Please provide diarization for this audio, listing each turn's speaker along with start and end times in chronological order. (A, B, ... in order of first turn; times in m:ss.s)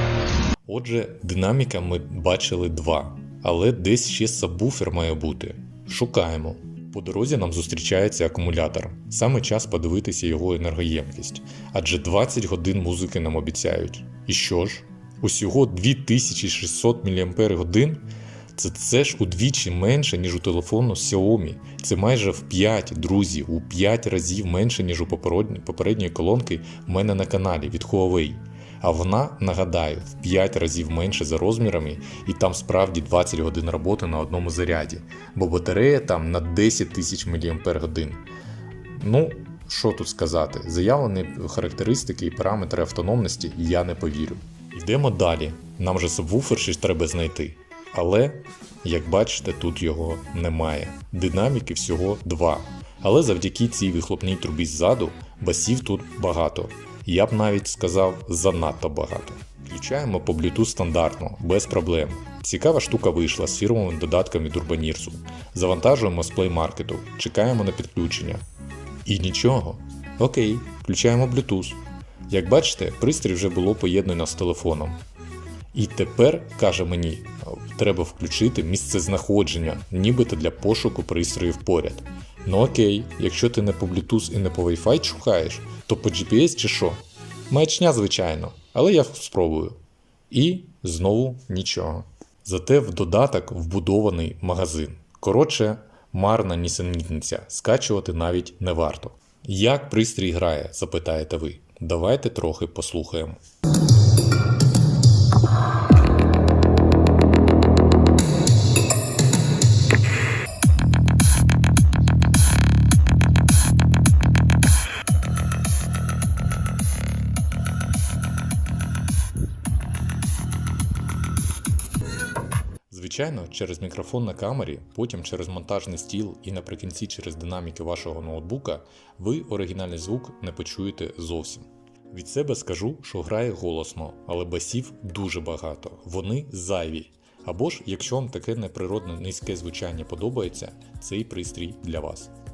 0:00.6-0:38.2 A
0:38.9-1:08.4 A
1:09.0-1:15.0 A
1:15.7-1:29.8 A
1:30.3-1:43.4 A
2:02.9-2:22.3 A